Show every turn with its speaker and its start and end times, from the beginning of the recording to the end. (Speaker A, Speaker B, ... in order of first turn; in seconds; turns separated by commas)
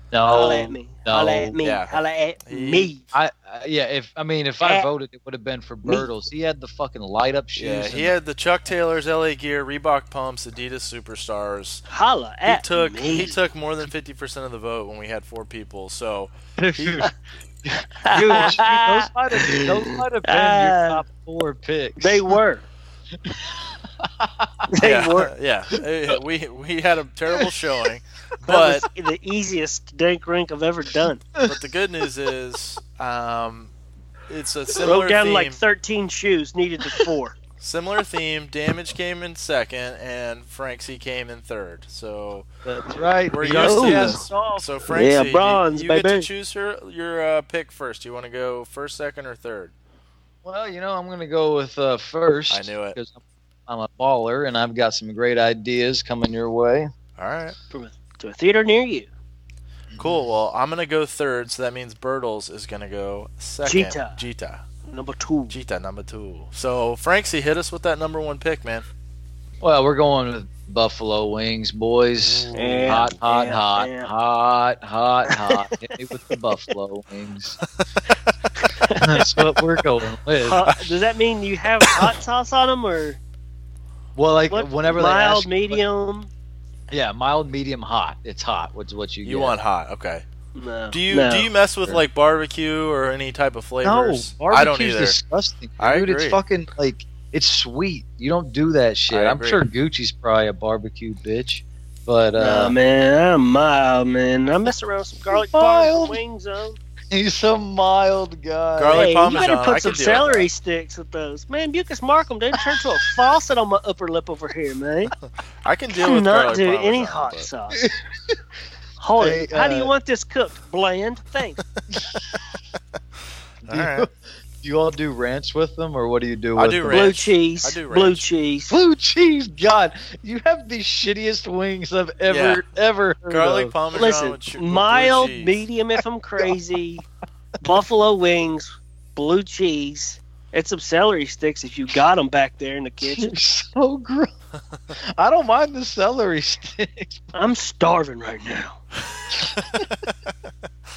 Speaker A: 0.1-1.6, Speaker B: 0.3-3.0, Speaker C: 1.6-2.9, Speaker A: 3.1-8.1, Speaker C: 7.5-11.8, Speaker B: 11.9-13.4, Speaker C: 12.4-17.1, Speaker A: 16.6-17.1, Speaker A: 17.6-22.4, Speaker B: 18.1-21.0, Speaker B: 22.0-22.6, Speaker A: 23.2-24.7, Speaker B: 24.7-25.3, Speaker C: 24.8-28.9, Speaker B: 28.4-31.3, Speaker C: 31.4-33.7, Speaker C: 34.3-35.6, Speaker B: 34.8-37.4, Speaker C: 37.6-42.5, Speaker A: 42.6-44.6, Speaker C: 43.3-49.7, Speaker B: 43.5-46.3, Speaker A: 50.4-56.9, Speaker C: 52.5-53.0, Speaker C: 57.2-57.5, Speaker B: 57.7-59.1, Speaker C: 60.0-64.6, Speaker B: 63.6-64.2, Speaker B: 64.9-65.5, Speaker C: 65.5-68.8, Speaker A: 69.6-77.6, Speaker C: 72.2-73.1, Speaker B: 72.5-74.1, Speaker B: 75.3-76.0, Speaker B: 78.6-79.4, Speaker A: 79.0-80.6, Speaker B: 80.4-83.2, Speaker A: 84.2-85.8, Speaker B: 84.5-86.3, Speaker A: 86.9-89.5, Speaker C: 89.2-90.2, Speaker B: 90.5-91.5, Speaker C: 90.9-95.2, Speaker A: 93.8-102.7, Speaker C: 95.8-96.4, Speaker C: 99.1-99.6, Speaker B: 102.4-106.8, Speaker A: 105.3-106.2, Speaker A: 107.1-109.1, Speaker C: 108.8-110.5, Speaker B: 108.9-115.1, Speaker C: 115.6-117.5, Speaker B: 115.9-117.9, Speaker B: 119.0-121.6, Speaker A: 119.2-119.9, Speaker A: 121.9-122.2, Speaker A: 123.6-127.1, Speaker C: 123.7-124.1, Speaker C: 126.5-128.2, Speaker B: 126.9-128.7, Speaker A: 128.7-133.7, Speaker C: 132.3-132.6, Speaker C: 133.3-135.6, Speaker B: 133.9-137.0, Speaker B: 137.6-143.3, Speaker A: 143.0-144.3, Speaker A: 144.9-147.2, Speaker B: 147.3-148.8, Speaker A: 149.4-149.9, Speaker C: 149.6-150.5